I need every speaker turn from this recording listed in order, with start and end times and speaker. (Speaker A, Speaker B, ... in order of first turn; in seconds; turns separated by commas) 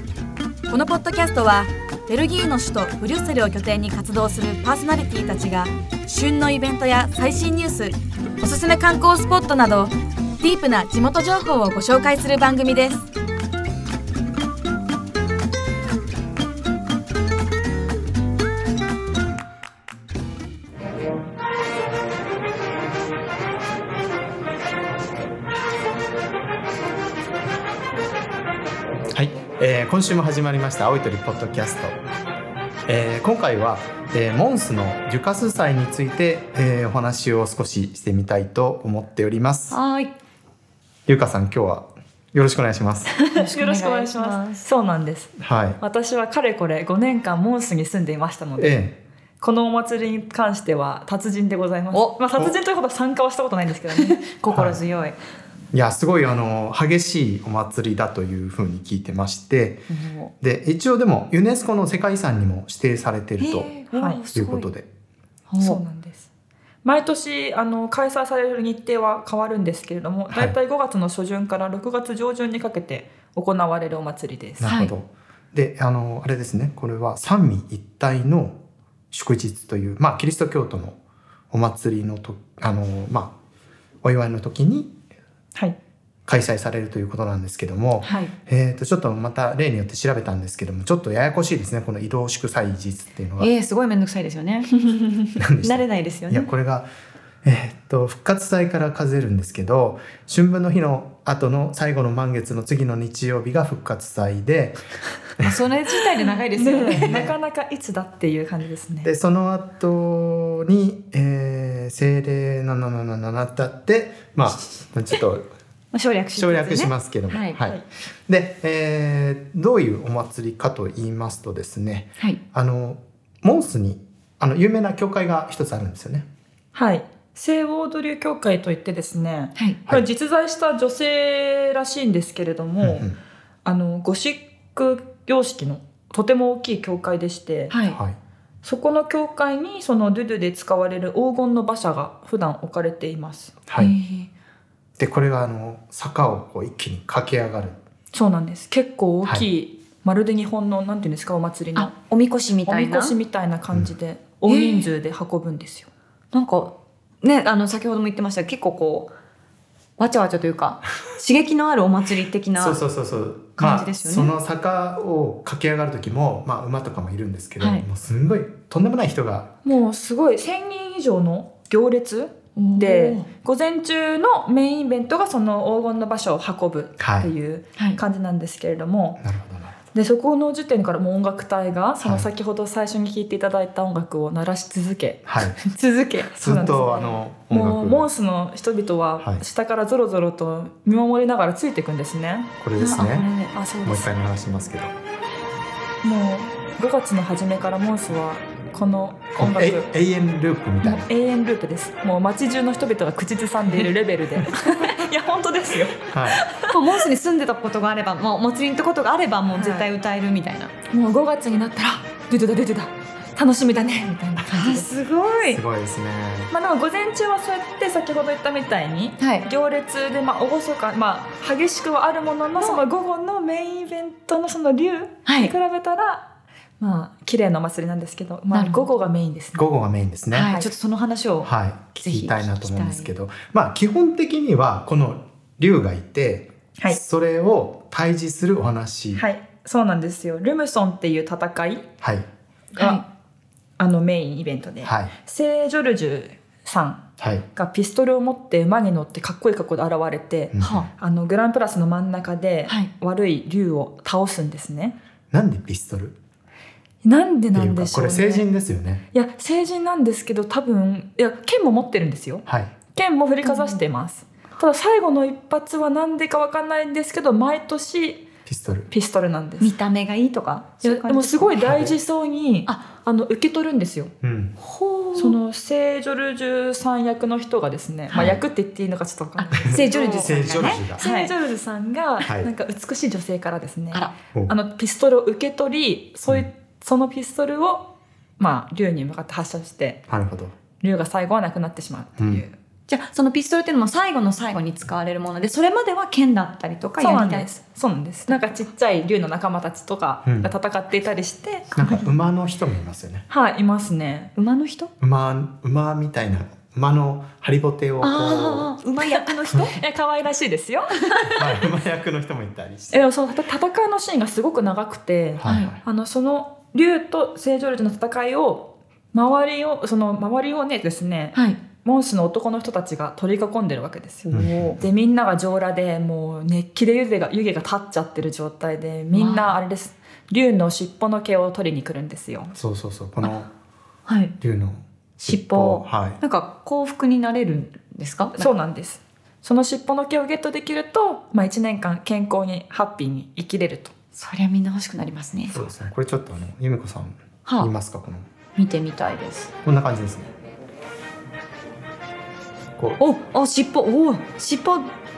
Speaker A: 0.7-13.1, Speaker B: 29.1-32.0, Speaker B: 32.9-39.8, Speaker C: 39.7-40.1, Speaker B: 41.1-43.1, Speaker D: 43.3-48.8, Speaker C: 43.3-44.6, Speaker B: 45.4-45.8, Speaker B: 48.6-49.0, Speaker D: 49.4-54.2, Speaker C: 51.9-52.2, Speaker C: 53.9-55.2, Speaker B: 54.5-54.8, Speaker B: 55.7-59.9, Speaker C: 59.9-60.3, Speaker B: 60.4-63.7, Speaker C: 63.4-64.7, Speaker D: 63.9-64.2, Speaker B: 64.3-64.9, Speaker C: 65.5-65.8, Speaker D: 65.6-66.3, Speaker D: 66.8-74.7, Speaker B: 70.3-70.6, Speaker B: 74.6-81.0, Speaker C: 74.6-74.9, Speaker B: 81.5-83.4, Speaker B: 84.0-85.0, Speaker B: 86.2-93.5, Speaker C: 88.0-88.3, Speaker C: 93.4-94.8, Speaker D: 94.9-95.2, Speaker B: 95.4-96.9, Speaker C: 95.6-96.5, Speaker B: 97.4-104.8, Speaker C: 105.4-107.3, Speaker D: 106.5-109.1, Speaker B: 106.9-107.3, Speaker B: 109.0-115.5, Speaker C: 115.9-117.6, Speaker B: 116.3-126.3, Speaker D: 126.7-133.1, Speaker B: 132.8-133.2, Speaker D: 133.6-137.8, Speaker C: 137.7-138.0, Speaker B: 137.8-138.2, Speaker D: 138.6-143.6, Speaker B: 143.7-143.9, Speaker C: 143.8-144.3, Speaker B: 145.0-147.8, Speaker D: 148.1-151.9, Speaker C: 151.7-153.2, Speaker D: 152.6-155.9, Speaker C: 154.4-154.9, Speaker C: 156.3-159.1, Speaker C: 160.0-162.8, Speaker B: 162.6-169.5, Speaker C: 163.6-164.3, Speaker C: 167.6-167.8, Speaker D: 169.6-179.2, Speaker C: 172.6-173.3, Speaker B: 177.0-177.3, Speaker B: 179.2-179.8, Speaker D: 179.9-185.2, Speaker B: 182.0-182.3, Speaker B: 185.2-185.6, Speaker C: 185.7-186.3, Speaker D: 186.3-194.1, Speaker B: 186.4-188.1, Speaker B: 192.6-193.3, Speaker C: 192.8-193.6, Speaker B: 193.8-194.9, Speaker D: 196.0-199.9, Speaker B: 199.3-201.1, Speaker D: 200.8-206.7, Speaker B: 206.1-206.4, Speaker C: 206.7-210.7, Speaker D: 209.6-209.9, Speaker D: 210.9-214.9, Speaker C: 214.2-215.6, Speaker B: 215.4-216.5, Speaker D: 216.5-229.7, Speaker C: 219.2-219.5, Speaker C: 222.6-222.8, Speaker C: 225.2-225.5, Speaker C: 228.5-228.9, Speaker B: 229.6-230.5, Speaker C: 230.3-233.1, Speaker B: 231.4-239.2, Speaker D: 239.2-241.9, Speaker B: 242.0-242.3, Speaker C: 242.8-243.0, Speaker D: 242.8-243.0, Speaker D: 243.8-255.0, Speaker B: 244.8-245.1, Speaker B: 247.2-247.4, Speaker B: 250.5-250.9, Speaker C: 250.6-250.9, Speaker B: 255.3-256.2, Speaker D: 257.0-258.5, Speaker B: 257.5-259.0, Speaker D: 259.1-268.3, Speaker B: 262.4-262.7, Speaker C: 263.4-263.8, Speaker B: 268.4-268.9, Speaker D: 268.9-269.7, Speaker C: 269.6-271.7, Speaker D: 270.8-274.1, Speaker B: 271.6-271.9, Speaker B: 274.2-274.6, Speaker C: 274.6-275.4, Speaker D: 275.1-290.0, Speaker C: 278.1-278.4, Speaker B: 278.1-278.4, Speaker C: 279.4-281.3, Speaker B: 279.5-281.0, Speaker B: 282.2-282.5, Speaker B: 290.1-290.5, Speaker D: 290.8-292.6, Speaker B: 292.2-292.4, Speaker C: 292.9-297.5, Speaker D: 297.0-302.1, Speaker B: 300.2-300.5, Speaker B: 301.7-303.2, Speaker D: 303.3-304.3, Speaker C: 304.4-304.9, Speaker B: 305.0-308.7, Speaker C: 308.0-309.8, Speaker D: 309.7-311.1, Speaker B: 311.3-313.1, Speaker D: 312.9-332.5, Speaker B: 315.4-315.8, Speaker C: 315.4-315.7, Speaker B: 324.3-324.8, Speaker C: 329.1-329.5, Speaker B: 332.5-333.5, Speaker C: 334.1-334.3, Speaker B: 334.4-336.2, Speaker C: 335.3-338.5, Speaker D: 338.3-343.9, Speaker C: 344.1-345.7, Speaker B: 345.5-348.2, Speaker C: 348.6-349.5, Speaker B: 349.6-350.3, Speaker C: 353.0-354.9